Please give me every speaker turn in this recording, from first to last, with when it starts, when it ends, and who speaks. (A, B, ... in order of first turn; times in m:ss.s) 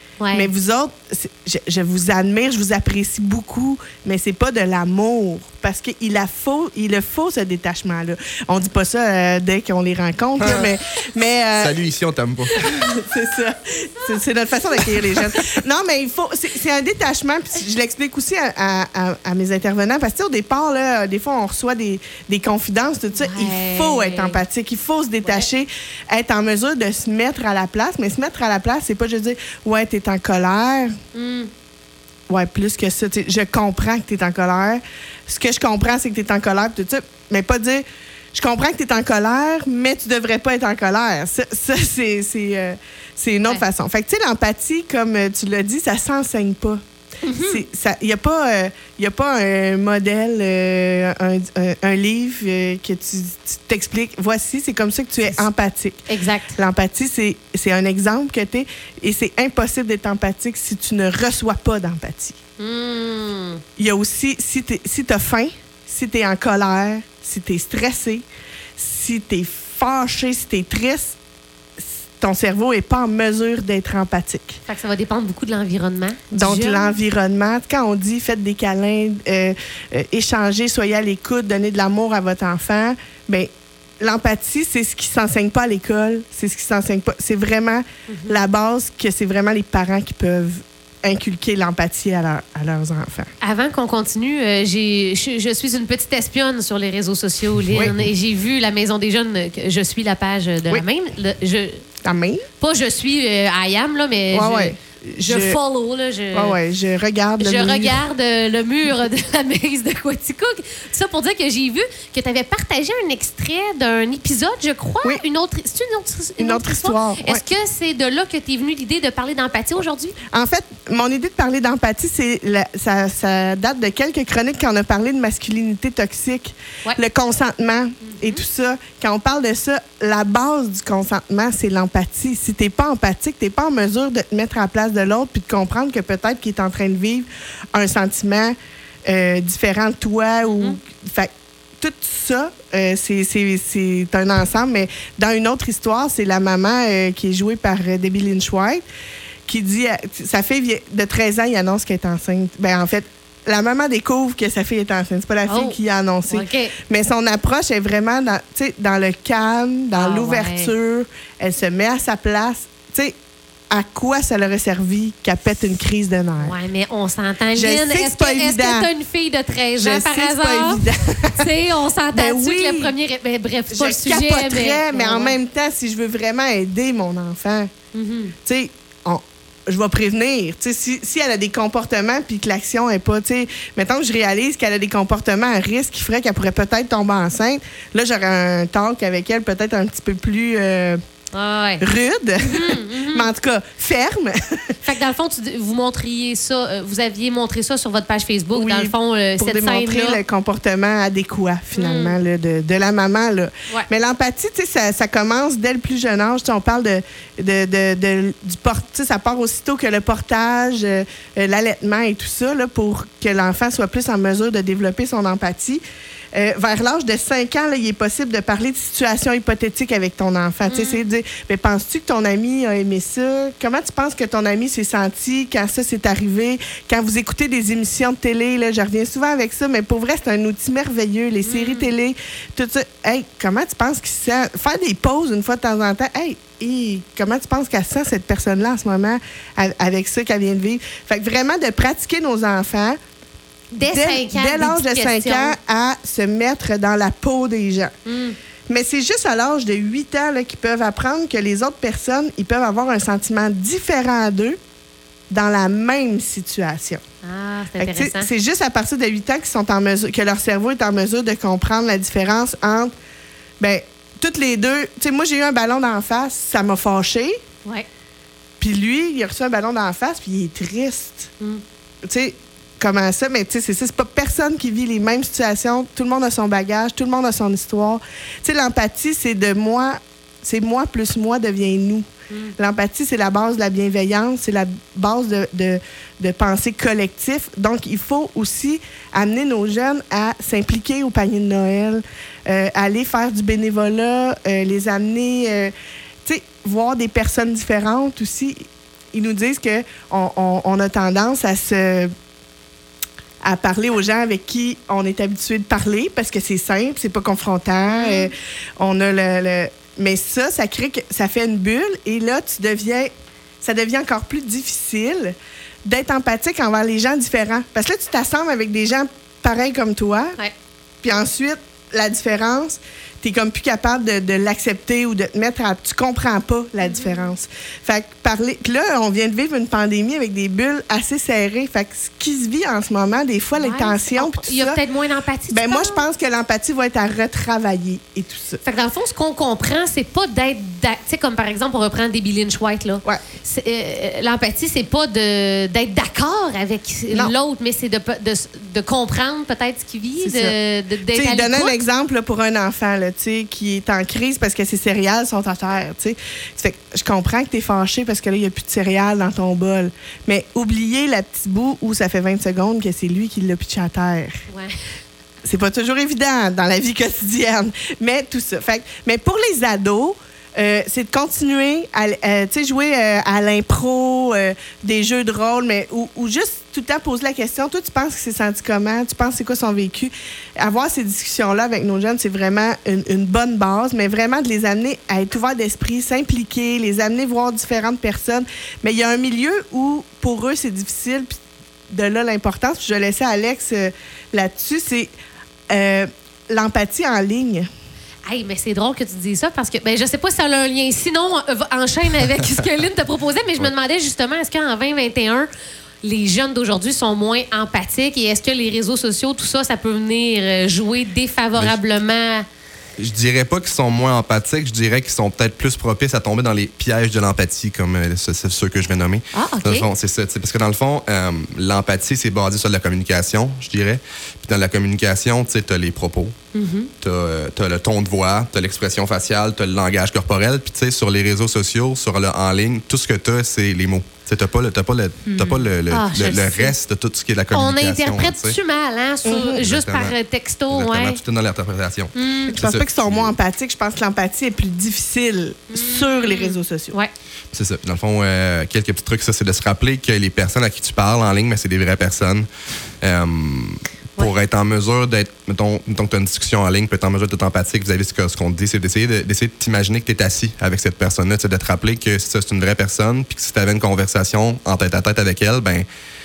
0:00.2-0:00.5 A
0:00.3-0:11.8 B
0:10.4-0:10.7 C
0:11.6-0:12.6 C
0:12.5-0:30.9 B
0:23.2-0:24.4 A
0:31.1-0:31.5 A
0:32.3-0:46.8 B
0:47.2-0:47.6 A
0:47.4-0:56.0 B
0:56.1-0:56.5 A
0:56.6-1:02.4 B
1:02.6-1:03.6 A
1:03.8-1:08.2 B
1:08.8-1:11.1 B
1:11.8-1:14.6 B
1:14.6-1:16.9 A
1:16.3-1:23.5 B
1:24.0-1:33.3 B
1:28.1-1:28.4 A
1:33.4-1:41.8 A
1:42.0-1:42.4 B
1:42.6-1:46.6 A
1:44.3-1:45.6 B
1:46.3-1:48.0 B
1:47.4-2:00.2 A
1:56.4-1:57.4 B
2:00.3-2:28.8 B
2:08.0-2:08.4 A
2:20.5-2:20.8 A
2:29.5-2:43.1 B
2:35.5-2:35.8 A
2:36.3-2:36.7 A
2:40.0-2:40.7 A
2:43.7-2:46.5 B
2:46.4-2:55.4 A
2:47.5-2:48.9 B
2:49.8-2:51.5 B
2:52.1-2:52.9 B
2:53.7-2:57.7 B
2:57.9-2:58.3 A
2:58.4-3:11.0 B
3:11.3-3:11.8 A
3:11.8-3:14.7 B
3:12.5-3:13.3 A
3:14.8-3:20.2 A
3:18.5-3:35.8 B
3:21.7-3:22.2 A
3:36.3-4:03.0 B
3:40.6-3:41.0 A
3:51.4-3:51.9 A
4:03.7-4:05.6 A
4:03.8-4:07.9 B
4:08.0-4:08.4 A
4:08.7-4:14.6 B
4:15.3-4:17.0 B
4:17.2-4:18.3 A
4:17.8-4:22.9 B
4:23.6-4:27.4 B
4:28.6-4:31.3 B
4:32.0-4:42.1 B
4:42.3-4:42.5 A
4:42.6-4:55.7 B
4:56.2-5:02.1 B
5:03.4-5:13.1 B
5:07.9-5:08.3 A
5:13.6-5:20.4 B
5:21.0-5:34.8 B
5:26.8-5:27.2 A
5:33.6-5:36.0 A
5:35.5-5:38.6 B
5:38.6-5:51.7 A
5:50.2-5:50.6 B
5:51.1-6:04.4 B
6:05.4-6:31.3 B
6:31.9-6:35.1 B
6:35.7-6:37.7 B
6:38.3-6:45.5 A
6:46.0-6:52.4 A
6:53.0-7:06.3 C
6:59.3-6:59.9 A
7:06.5-7:06.9 A
7:07.0-7:18.6 C
7:15.2-7:16.7 A
7:17.5-7:21.2 A
7:19.2-7:19.6 B
7:19.5-7:20.2 C
7:20.7-7:23.4 C
7:22.1-7:22.6 A
7:22.5-7:26.9 B
7:25.7-7:27.1 A
7:27.5-7:32.5 C
7:33.0-7:45.8 C